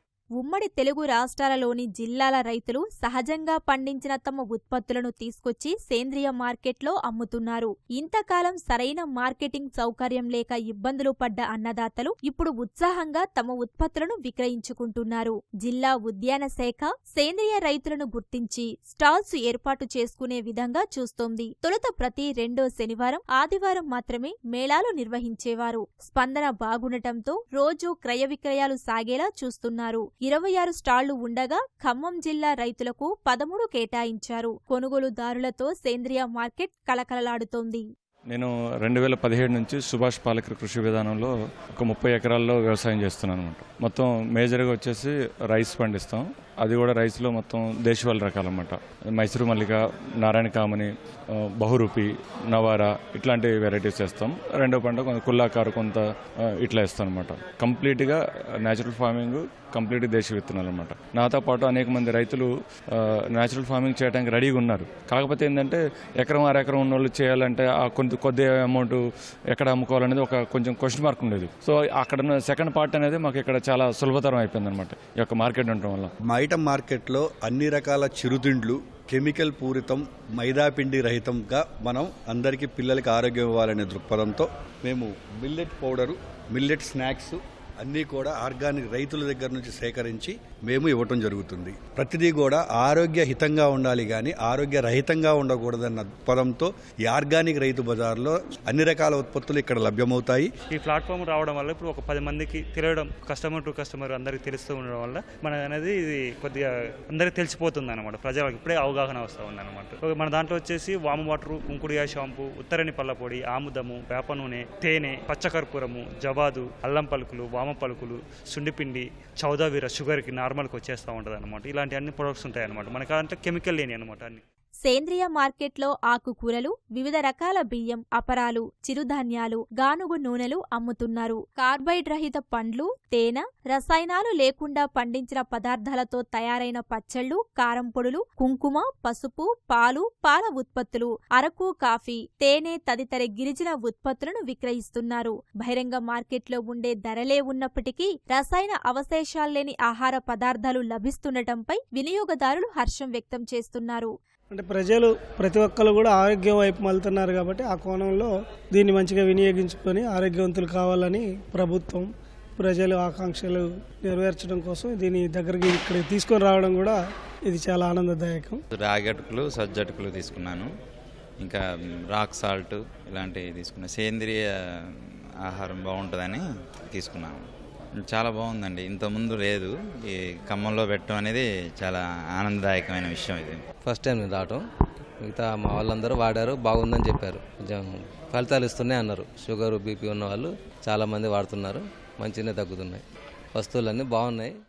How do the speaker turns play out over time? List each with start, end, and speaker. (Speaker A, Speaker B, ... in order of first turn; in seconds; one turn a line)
Speaker A: 0.4-37.8
Speaker B: 38.3-76.1
Speaker C: 76.3-100.5
Speaker D: 100.7-124.4
Speaker A: 124.8-154.1
Speaker E: 154.5-168.6
Speaker F: 168.8-170.7
Speaker F: 171.4-174.5
Speaker F: 175.4-177.4
Speaker F: 178.1-183.6
Speaker G: 183.8-184.6
Speaker G: 185.2-193.0
Speaker G: 193.5-194.5